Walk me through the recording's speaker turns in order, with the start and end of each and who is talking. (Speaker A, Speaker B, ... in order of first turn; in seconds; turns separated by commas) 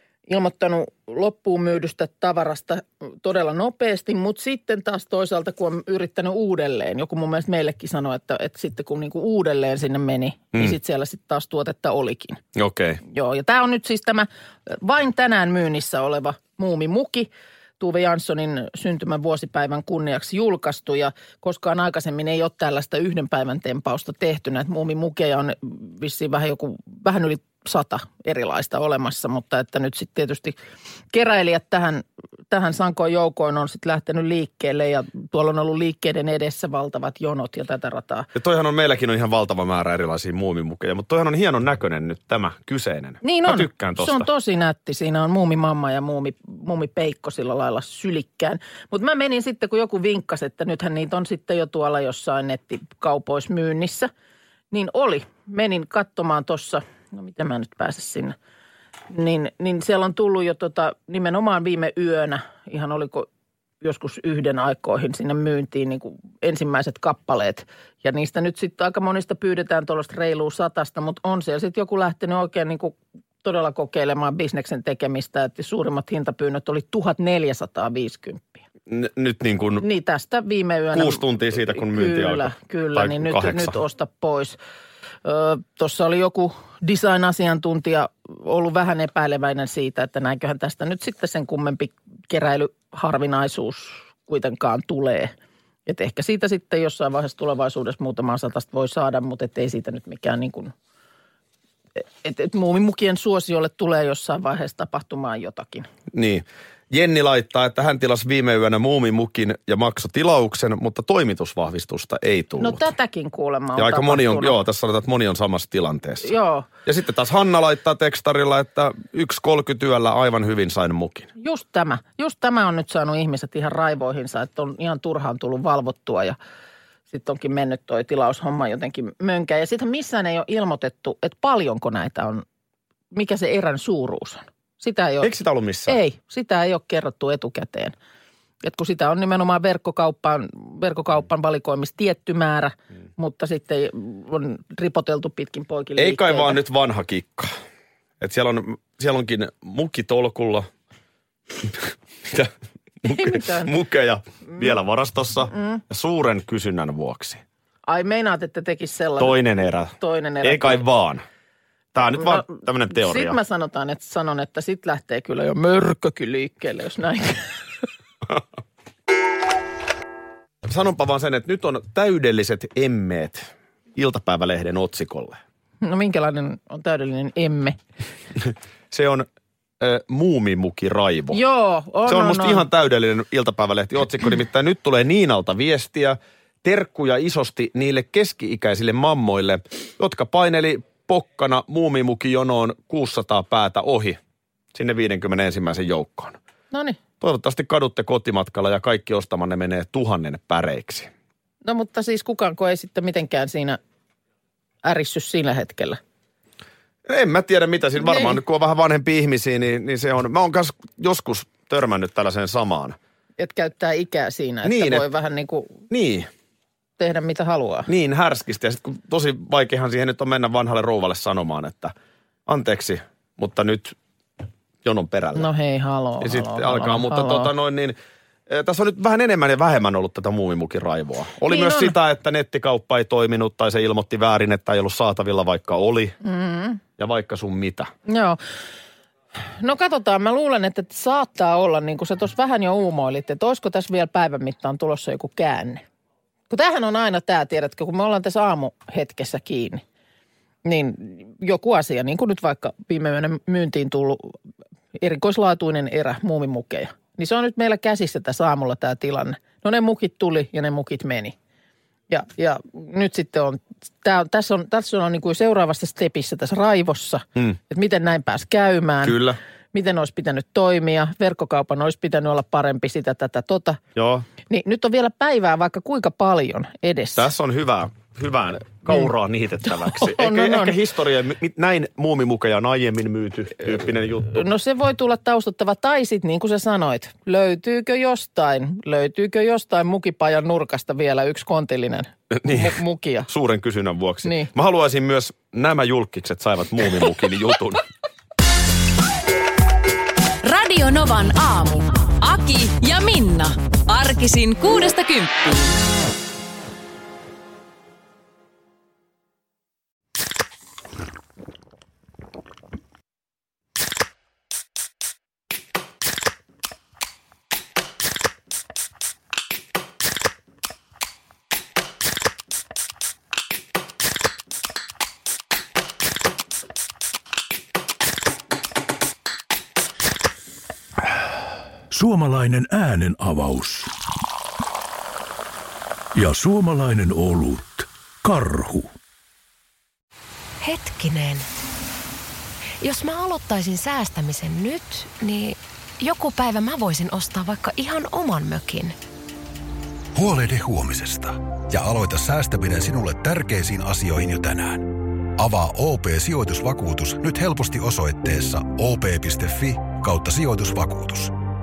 Speaker A: 0.3-12.4, Speaker B: 12.6-13.0, Speaker A: 13.1-30.6, Speaker A: 31.1-38.3, Speaker B: 38.3-44.3, Speaker A: 43.2-54.1, Speaker A: 54.7-58.3, Speaker A: 59.1-63.3, Speaker A: 63.8-78.6, Speaker B: 78.9-79.8, Speaker A: 79.8-84.6, Speaker B: 80.9-83.8, Speaker A: 85.2-95.3, Speaker A: 95.9-100.7, Speaker A: 102.2-105.9, Speaker B: 106.1-112.9, Speaker A: 112.6-114.6, Speaker B: 113.7-116.3, Speaker A: 116.2-116.7, Speaker B: 116.8-121.3, Speaker A: 121.4-126.3, Speaker A: 127.1-132.4, Speaker A: 133.1-135.3, Speaker B: 135.2-136.0, Speaker A: 135.9-137.9, Speaker A: 138.6-146.6, Speaker B: 146.0-147.5, Speaker B: 148.2-150.7, Speaker B: 151.6-152.5, Speaker B: 153.0-157.4, Speaker A: 153.0-153.7, Speaker A: 155.5-155.8, Speaker A: 157.9-159.4, Speaker B: 159.2-161.2, Speaker A: 159.9-160.8, Speaker B: 161.9-163.4, Speaker A: 162.2-167.8, Speaker B: 170.6-175.4, Speaker A: 175.8-177.8, Speaker B: 178.4-179.2, Speaker B: 179.8-181.4, Speaker A: 181.3-182.7, Speaker B: 182.0-194.2, Speaker B: 194.7-196.4, Speaker A: 196.7-197.0, Speaker B: 197.2-201.1, Speaker A: 201.6-203.8, Speaker A: 204.8-206.0, Speaker B: 207.1-212.9, Speaker A: 208.0-208.4, Speaker A: 213.4-215.8, Speaker B: 214.6-215.1, Speaker B: 215.9-216.3, Speaker A: 217.0-217.9, Speaker B: 217.9-221.9, Speaker B: 222.5-223.9, Speaker B: 224.8-225.5, Speaker A: 225.3-227.5, Speaker B: 226.2-227.9, Speaker B: 228.5-236.1, Speaker A: 231.5-231.9, Speaker A: 236.2-236.8, Speaker B: 237.0-237.9, Speaker A: 238.1-238.4, Speaker A: 239.6-245.8, Speaker A: 246.5-249.8, Speaker A: 250.6-254.4, Speaker A: 254.9-261.3, Speaker A: 262.1-269.2, Speaker B: 269.0-269.4, Speaker A: 269.7-273.8, Speaker B: 273.9-274.2, Speaker A: 274.5-277.3, Speaker B: 277.1-284.5, Speaker A: 279.8-280.8, Speaker A: 284.3-293.3, Speaker B: 292.4-297.8, Speaker A: 294.2-294.5, Speaker C: 300.4-305.7, Speaker D: 331.9-333.9, Speaker D: 336.1-338.9, Speaker E: 340.6-341.5, Speaker E: 342.8-348.9, Speaker F: 350.1-354.9, Speaker F: 355.4-361.3